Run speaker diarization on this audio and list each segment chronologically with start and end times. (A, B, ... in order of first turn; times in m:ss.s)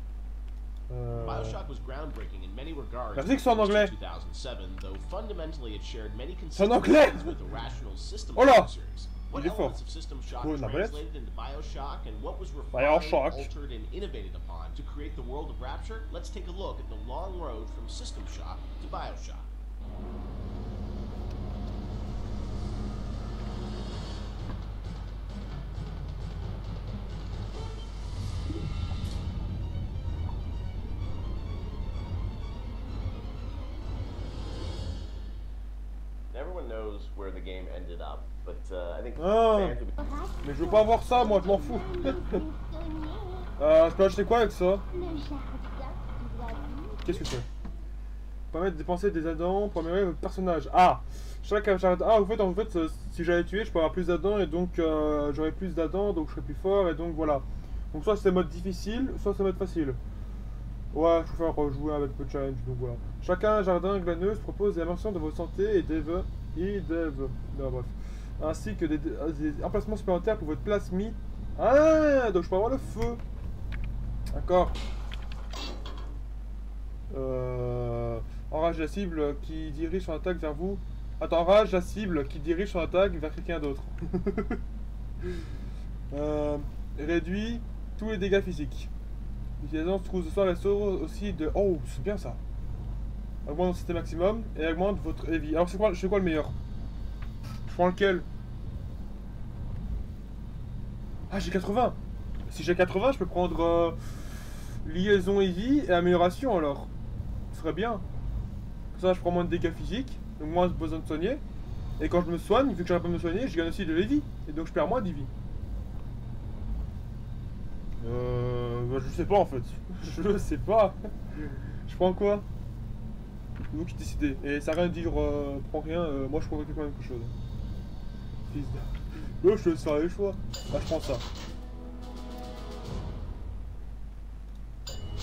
0:00.9-0:01.6 A
0:01.1-0:19.5 B
0:03.1-0:03.9 A
0:06.5-0:07.4 A
0:08.3-0:08.7 A
0:09.3-0:09.8 A
0:10.4-0:11.0 A
0:12.7-0:13.5 A
0:36.3-0:39.9 B
0:39.2-0:39.8 A
0:40.0-0:43.5 C
0:40.4-0:42.4 A
0:43.6-0:44.8 A
0:44.9-0:47.3 C
0:47.0-0:47.5 A
0:48.5-1:00.0 A
1:00.9-1:13.2 A
1:14.3-1:14.8 A
1:17.1-1:24.6 A
1:26.1-1:28.9 A
1:29.6-1:32.4 A
1:33.4-1:36.5 A
1:37.7-1:38.2 A
1:41.3-1:42.0 A
1:42.5-1:44.2 A
1:44.8-1:46.9 A
1:47.5-1:48.0 A
1:48.9-1:51.4 A
1:52.0-1:55.3 A
1:58.0-2:01.1 A
2:01.8-2:02.4 A
2:03.7-2:07.3 A
2:08.5-2:08.8 A
2:09.4-2:11.2 A